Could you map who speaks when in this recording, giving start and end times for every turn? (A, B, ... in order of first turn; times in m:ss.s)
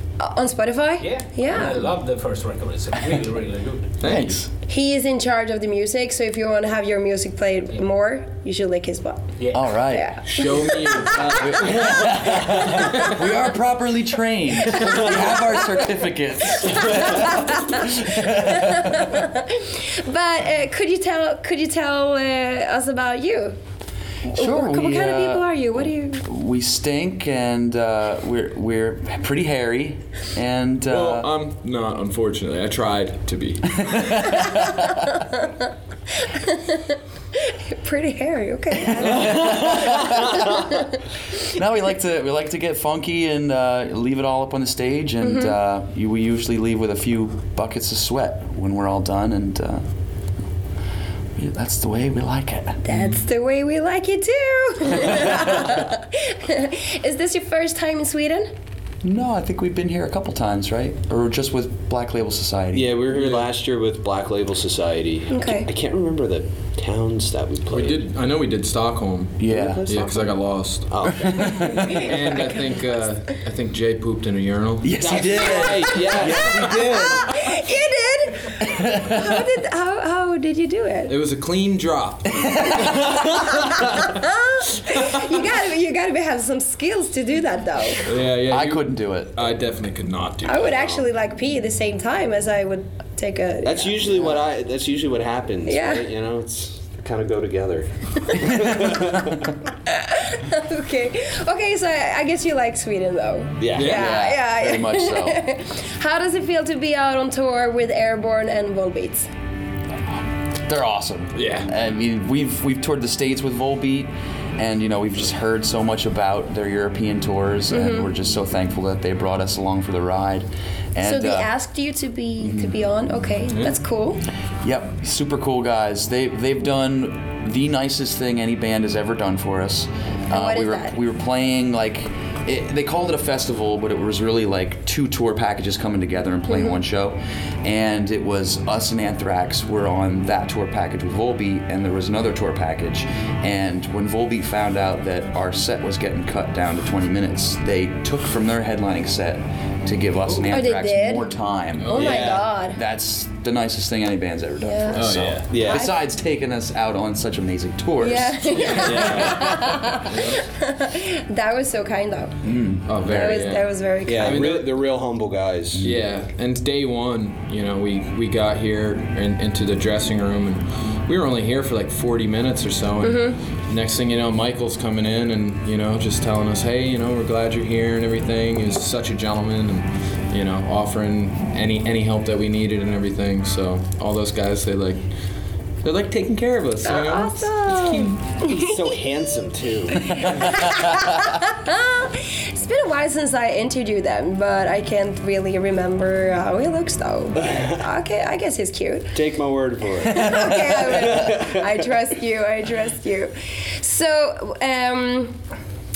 0:00.2-0:01.9 A
0:01.0-0:04.0 B
0:04.0-0:04.4 C
0:04.0-0:04.5 D
0:04.7-0:13.1 A
0:09.4-0:09.7 B
0:09.5-0:10.2 D
0:10.2-0:13.1 C
0:11.2-0:19.1 D
0:14.6-0:15.9 A
0:16.5-0:23.6 A
0:24.2-0:31.3 D
0:24.3-0:26.2 A
0:30.9-0:34.1 C
0:33.7-0:35.1 D
0:34.3-0:35.7 A
0:36.2-0:40.9 A
0:38.9-0:40.7 D
0:41.4-0:49.8 D
0:45.2-0:45.6 A
0:51.4-0:53.1 D
0:52.8-0:58.5 A
0:59.0-1:03.0 D
1:02.7-1:08.0 E
1:03.1-1:03.5 C
1:05.3-1:05.7 A
1:07.7-1:11.1 C
1:09.4-1:09.8 D
1:09.5-1:10.4 E
1:10.9-1:11.6 E
1:11.2-1:12.0 D
1:11.6-1:12.9 A
1:11.9-1:15.0 C
1:14.8-1:17.5 D
1:15.0-1:17.1 E
1:15.5-1:21.1 A
1:18.6-1:19.5 D
1:21.1-1:22.8 C
1:22.7-1:23.0 D
1:22.7-1:28.0 A
1:28.0-1:30.7 C
1:28.4-1:29.4 D
1:30.4-1:34.1 A
1:30.6-1:31.0 E
1:33.6-1:39.2 E
1:35.6-1:36.1 A
1:38.6-1:39.0 D
1:39.8-1:49.3 A
1:43.6-1:44.0 E
1:43.7-1:44.1 C
1:43.8-1:45.4 D
1:50.6-2:01.5 D
1:51.3-1:51.7 C
1:57.7-1:58.1 A
2:01.0-2:04.2 A
2:02.4-2:02.8 D
2:04.6-2:39.3 D
2:10.3-2:11.0 A
2:16.5-2:16.8 A
2:30.5-2:31.3 A
2:31.8-2:32.3 C
2:31.9-2:32.8 A
2:31.9-2:32.4 E
2:34.6-2:36.0 A
2:34.9-2:35.5 C
2:35.5-2:35.8 E
2:38.0-2:42.4 A
2:38.5-2:39.5 C
2:38.7-2:39.5 E
2:40.0-2:40.4 C
2:42.4-2:43.3 D
2:42.8-2:44.8 C
2:43.0-2:44.5 A
2:44.0-2:45.8 E
2:45.8-3:05.0 C
2:53.0-2:53.4 A
3:05.8-3:08.2 C
3:06.8-3:19.2 A
3:08.5-3:10.0 E
3:10.2-3:11.1 D
3:19.1-3:21.6 E
3:20.0-3:25.4 A